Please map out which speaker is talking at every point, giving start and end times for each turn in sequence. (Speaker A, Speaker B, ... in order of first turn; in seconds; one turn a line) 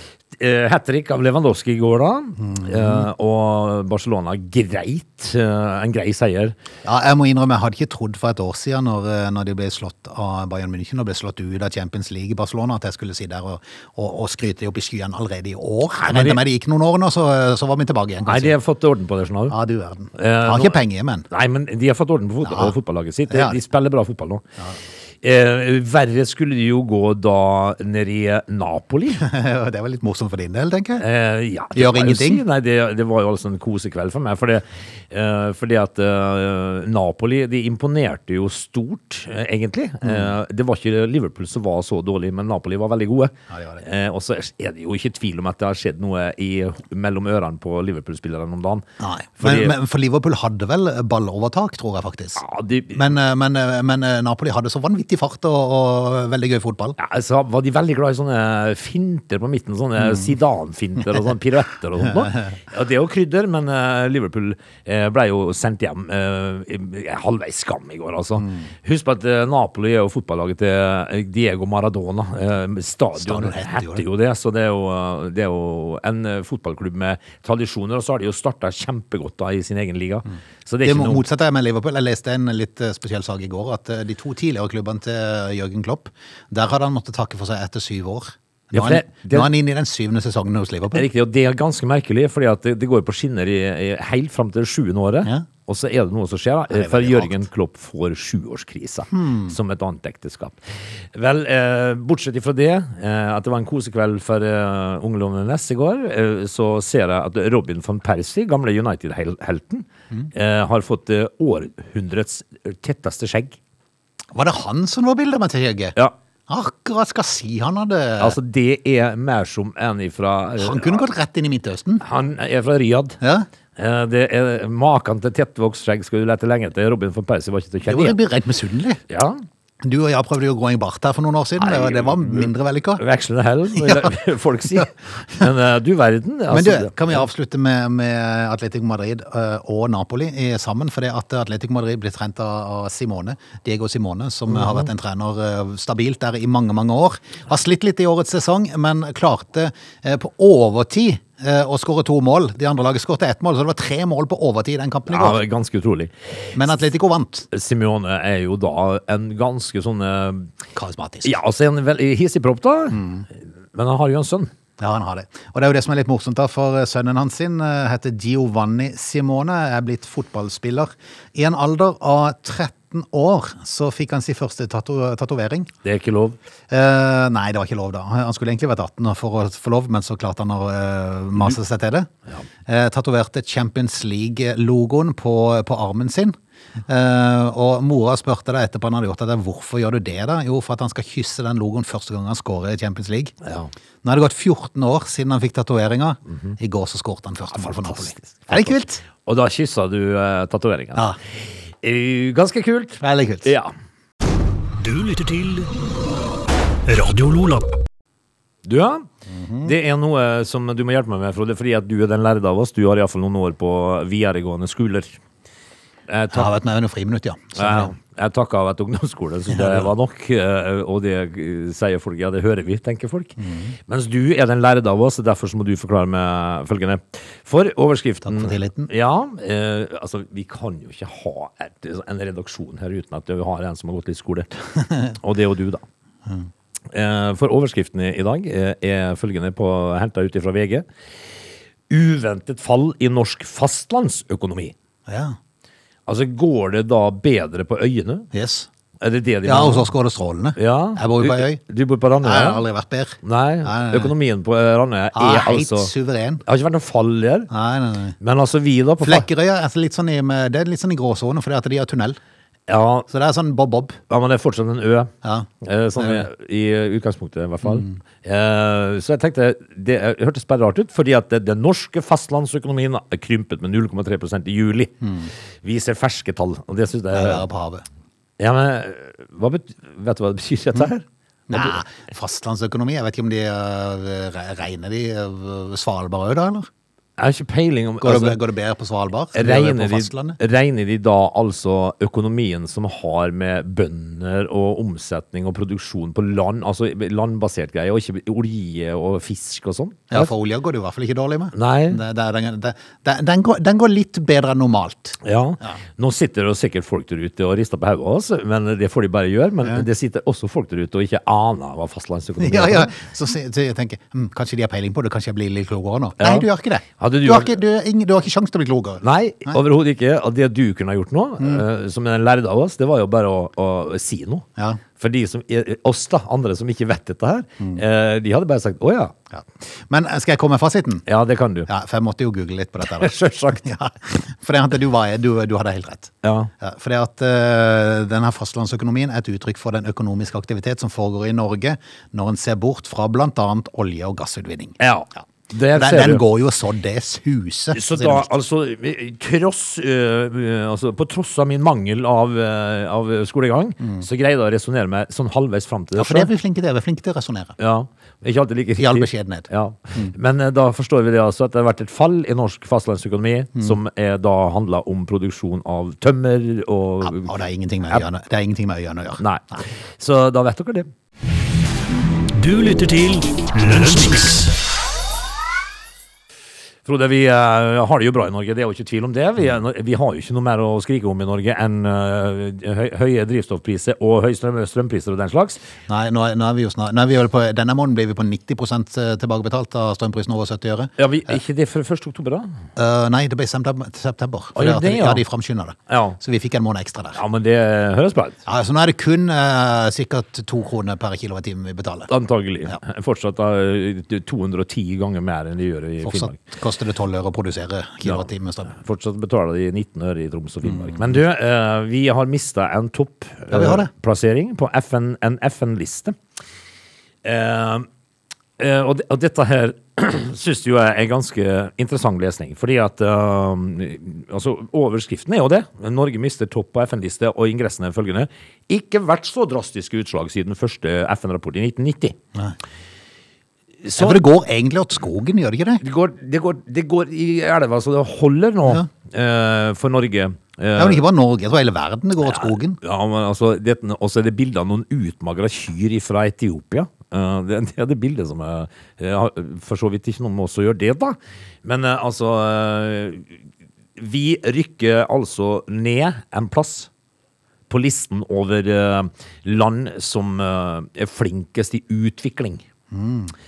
Speaker A: 0.3-6.5
Speaker B: 2.4-3.1
Speaker B: 6.8-18.6
Speaker A: 16.0-16.4
Speaker A: 18.2-19.5
Speaker B: 19.5-21.3
Speaker A: 20.1-20.8
Speaker A: 21.3-24.4
Speaker B: 22.4-22.7
Speaker B: 23.3-23.6
Speaker A: 25.2-29.2
Speaker B: 29.2-31.0
Speaker A: 31.0-48.9
Speaker B: 31.7-32.4
Speaker B: 40.0-40.3
Speaker B: 43.5-43.8
Speaker B: 49.0-57.0
Speaker A: 49.4-49.7
Speaker A: 52.4-53.1
Speaker A: 57.0-81.2
Speaker B: 62.2-62.5
Speaker B: 68.4-68.7
Speaker B: 73.2-74.0
Speaker B: 80.8-91.0
Speaker A: 88.7-89.5
Speaker A: 90.9-100.6
Speaker B: 96.7-97.4
Speaker B: 99.1-99.5
Speaker A: 101.1-113.6
Speaker B: 114.3-116.0
Speaker B: 116.5-118.3
Speaker A: 118.2-121.0
Speaker B: 120.6-122.0
Speaker A: 122.0-123.2
Speaker B: 123.2-123.5
Speaker A: 123.8-128.2
Speaker B: 127.8-129.0
Speaker A: 129.1-129.4
Speaker B: 129.8-133.0
Speaker A: 131.6-137.2
Speaker B: 133.8-134.1
Speaker B: 136.5-155.4
Speaker A: 144.5-144.9
Speaker A: 155.1-156.8
Speaker B: 156.5-157.5
Speaker A: 157.5-160.5
Speaker B: 160.7-161.3
Speaker A: 161.2-163.0
Speaker B: 162.9-163.2
Speaker A: 163.7-164.5
Speaker B: 164.8-175.7
Speaker A: 175.8-176.4
Speaker B: 176.7-182.1
Speaker B: 182.7-186.3
Speaker B: 186.9-193.3
Speaker A: 193.4-193.7
Speaker B: 194.0-199.0
Speaker A: 197.5-201.1
Speaker A: 201.8-203.7
Speaker B: 203.0-203.5
Speaker C: 204.8-205.7
Speaker C: 206.9-207.7
Speaker A: 208.6-209.1
Speaker B: 209.3-209.7
Speaker A: 209.6-215.2
Speaker A: 216.1-216.5
Speaker B: 216.3-217.9
Speaker A: 217.6-234.5
Speaker B: 219.5-219.9
Speaker B: 223.4-223.8
Speaker B: 228.2-228.9
Speaker A: 235.1-235.8
Speaker A: 236.9-240.8
Speaker A: 241.9-244.7
Speaker B: 245.1-245.4
Speaker A: 246.1-248.3
Speaker B: 248.3-248.7
Speaker A: 249.0-249.9
Speaker B: 249.4-251.6
Speaker A: 250.6-252.6
Speaker B: 252.2-254.1
Speaker A: 253.2-255.9
Speaker B: 255.1-256.4
Speaker A: 256.4-257.5
Speaker B: 257.5-258.2
Speaker A: 258.2-259.3
Speaker B: 259.0-262.2
Speaker A: 262.7-263.1
Speaker B: 263.1-264.0
Speaker A: 264.1-275.0
Speaker B: 265.2-266.2
Speaker B: 267.6-268.0
Speaker B: 275.0-275.3
Speaker A: 275.6-277.4
Speaker B: 277.1-277.8
Speaker A: 278.4-281.8
Speaker B: 281.5-286.7
Speaker A: 287.2-288.4
Speaker B: 288.0-290.4
Speaker A: 289.3-300.3
Speaker B: 300.1-305.8
Speaker A: 301.5-302.0
Speaker A: 305.2-312.9
Speaker B: 312.4-319.6
Speaker A: 316.2-316.5
Speaker A: 317.0-317.6
Speaker A: 319.0-324.5
Speaker A: 325.0-329.1
Speaker B: 329.3-331.1
Speaker A: 331.1-331.7
Speaker B: 331.7-344.8
Speaker A: 332.8-333.6
Speaker A: 336.2-336.5
Speaker A: 344.8-346.2
Speaker B: 345.7-348.3
Speaker A: 347.7-356.3
Speaker B: 355.9-357.5
Speaker A: 357.6-367.3
Speaker B: 358.8-360.1
Speaker B: 367.0-369.2
Speaker A: 369.2-370.9
Speaker C: 372.3-374.5
Speaker A: 376.8-385.6
Speaker B: 385.9-390.9
Speaker A: 391.0-392.5
Speaker B: 392.8-397.2
Speaker A: 394.6-395.2
Speaker A: 395.9-396.2
Speaker A: 397.1-398.4
Speaker B: 398.4-402.1
Speaker A: 402.1-406.4
Speaker B: 406.0-408.7
Speaker A: 408.0-416.1
Speaker B: 410.6-411.0
Speaker B: 413.5-413.9
Speaker A: 417.2-417.9
Speaker A: 418.6-432.2
Speaker A: 433.8-434.2
Speaker B: 433.9-435.8
Speaker A: 435.8-441.0
Speaker B: 440.7-442.8
Speaker A: 442.2-453.3
Speaker A: 453.9-456.9
Speaker A: 457.7-462.6
Speaker B: 462.9-463.3